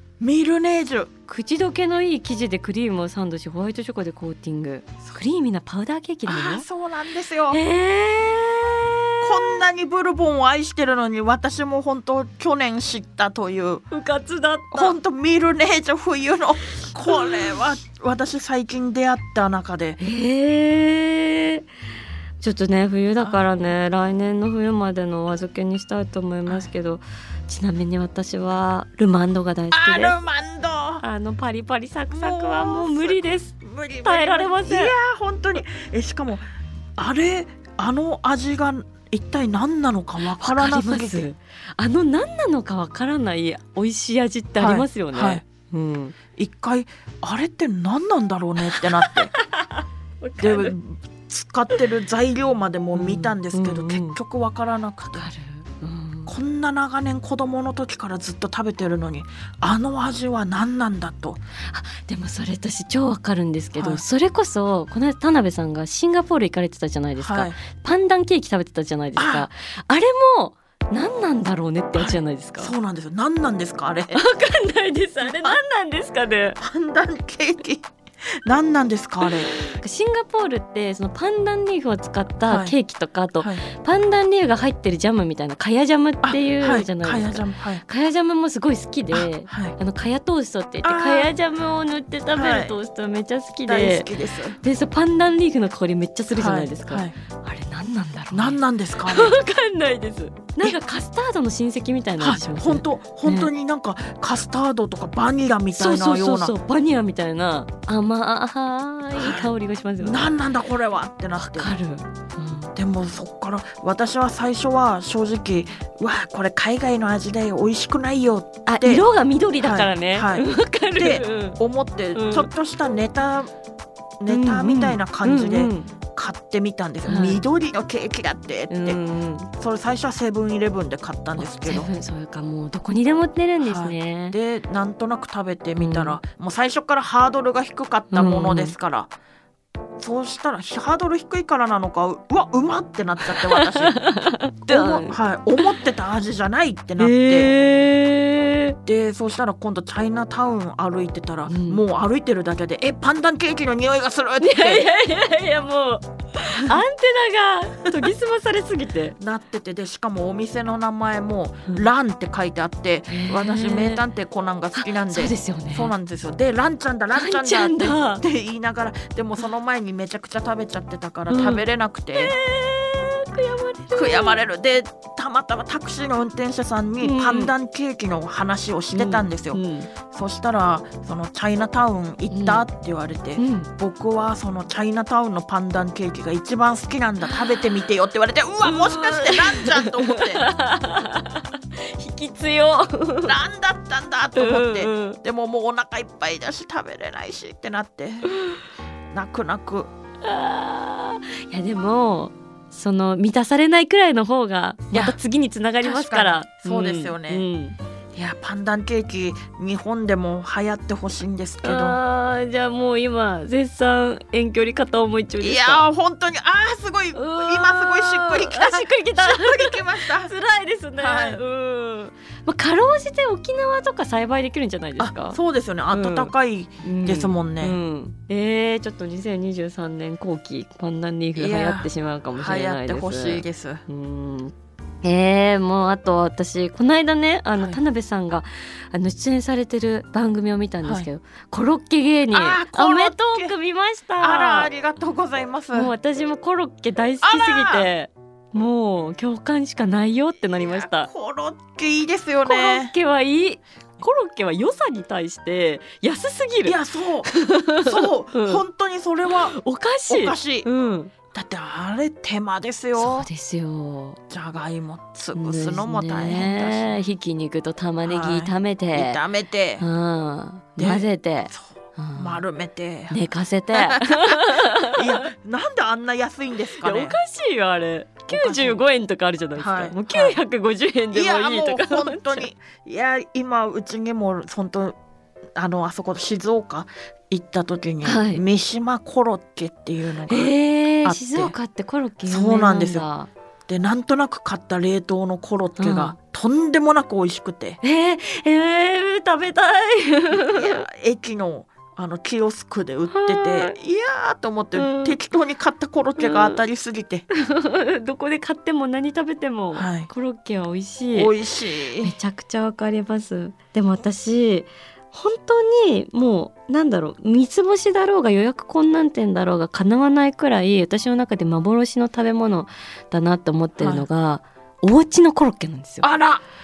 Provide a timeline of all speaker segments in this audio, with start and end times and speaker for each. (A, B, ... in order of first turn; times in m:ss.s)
0:00.2-0:01.1 A
0:01.3-0:06.6 B
0:06.2-0:07.6 A
0:07.5-0:09.6 B
0:09.2-0:13.8 A
0:13.9-0:14.9 B
0:14.7-0:20.0 A
0:20.0-0:21.6 B
0:22.4-0:30.2 B
0:29.7-0:31.0 A
0:31.0-0:34.9 B
0:32.1-0:41.2 A
0:40.3-0:46.1 B
0:44.6-0:45.4 A
0:46.4-0:49.3 A
0:48.7-0:50.8 B
0:50.4-0:55.3 A
0:52.9-0:54.2 B
0:55.2-0:56.3 B
0:56.3-1:01.4 A
1:01.7-1:12.7 B
1:03.8-1:04.0 A
1:07.2-1:07.6 A
1:09.2-1:09.5 A
1:11.9-1:14.2 A
1:14.1-1:16.6 B
1:15.2-1:15.6 A
1:16.6-1:17.9 A
1:18.4-1:19.5 A
1:19.6-1:43.5 B
1:22.5-1:22.7 A
1:23.4-1:23.6 A
1:26.2-1:27.8 A
1:29.1-1:29.8 A
1:30.8-1:31.3 A
1:32.3-1:32.8 A
1:33.6-1:34.6 A
1:36.3-1:37.1 A
1:38.3-1:39.4 A
1:42.2-1:46.5 A
1:45.7-1:50.3 B
1:49.2-1:51.7 A
1:51.4-1:52.7 B
1:52.7-1:59.0 A
1:58.6-2:01.6 B
1:59.6-2:03.5 A
2:02.1-2:02.5 B
2:04.2-2:09.0 A
2:04.3-2:05.9 B
2:07.0-2:07.4 B
2:08.7-2:09.5 B
2:09.5-2:11.9 A
2:11.4-2:14.4 B
2:13.6-2:19.1 A
2:15.8-2:16.2 B
2:18.1-2:18.7 B
2:20.0-2:24.0 A
2:23.3-2:25.2 B
2:24.6-2:27.6 A
2:27.0-2:28.8 B
2:28.8-2:34.9 A
2:31.5-2:31.8 B
2:34.4-2:39.2 B
2:39.2-2:52.3 A
2:43.1-2:44.0 B
2:44.7-2:45.9 B
2:47.1-2:48.2 B
2:51.3-2:54.4 B
2:53.9-3:10.5 A
2:57.0-2:57.5 B
2:58.9-2:59.9 B
3:02.3-3:02.6 B
3:03.4-3:03.7 B
3:08.6-3:13.4 B
3:13.2-3:18.3 A
3:14.3-3:15.2 B
3:19.1-3:19.9 A
3:20.2-3:27.8 B
3:25.8-3:27.4 A
3:28.1-3:32.0 A
3:31.6-3:35.8 B
3:35.4-3:40.3 A
3:37.1-3:45.4 B
3:41.0-3:41.4 A
3:45.0-3:47.8 A
3:45.9-4:04.7 B
3:51.4-3:53.8 A
4:02.3-4:03.5 A
4:04.2-4:05.9 A
4:05.7-4:11.1 B
4:07.2-4:07.9 A
4:10.6-4:12.9 A
4:12.4-4:18.6 B
4:16.6-4:19.6 A
4:19.3-4:21.1 B
4:20.1-4:20.7 A
4:21.3-4:23.3 A
4:23.0-4:24.2 B
4:24.3-4:27.0 A
4:25.3-4:29.2 B
4:28.0-4:29.8 A
4:29.8-4:32.4 B
4:30.8-4:33.2 A
4:33.1-4:35.2 B
4:33.7-4:37.2 A
4:36.8-4:42.5 B
4:38.3-4:38.8 A
4:39.6-4:40.4 A
4:41.1-4:45.0 A
4:45.6-4:50.5 A
4:48.0-4:48.4 B
4:50.3-4:53.3 B
4:51.0-4:51.5 A
4:52.2-4:53.0 A
4:53.7-4:57.8 A
4:55.8-4:56.1 B
4:57.8-5:00.8 B
5:00.3-5:07.2 A
5:03.1-5:03.7 B
5:04.7-5:05.2 B
5:06.2-5:06.6 B
5:07.3-5:11.3 B
5:09.7-5:10.1 A
5:11.1-5:12.1 A
5:12.0-5:26.1 B
5:23.8-5:24.0 A
5:26.0-5:26.4 A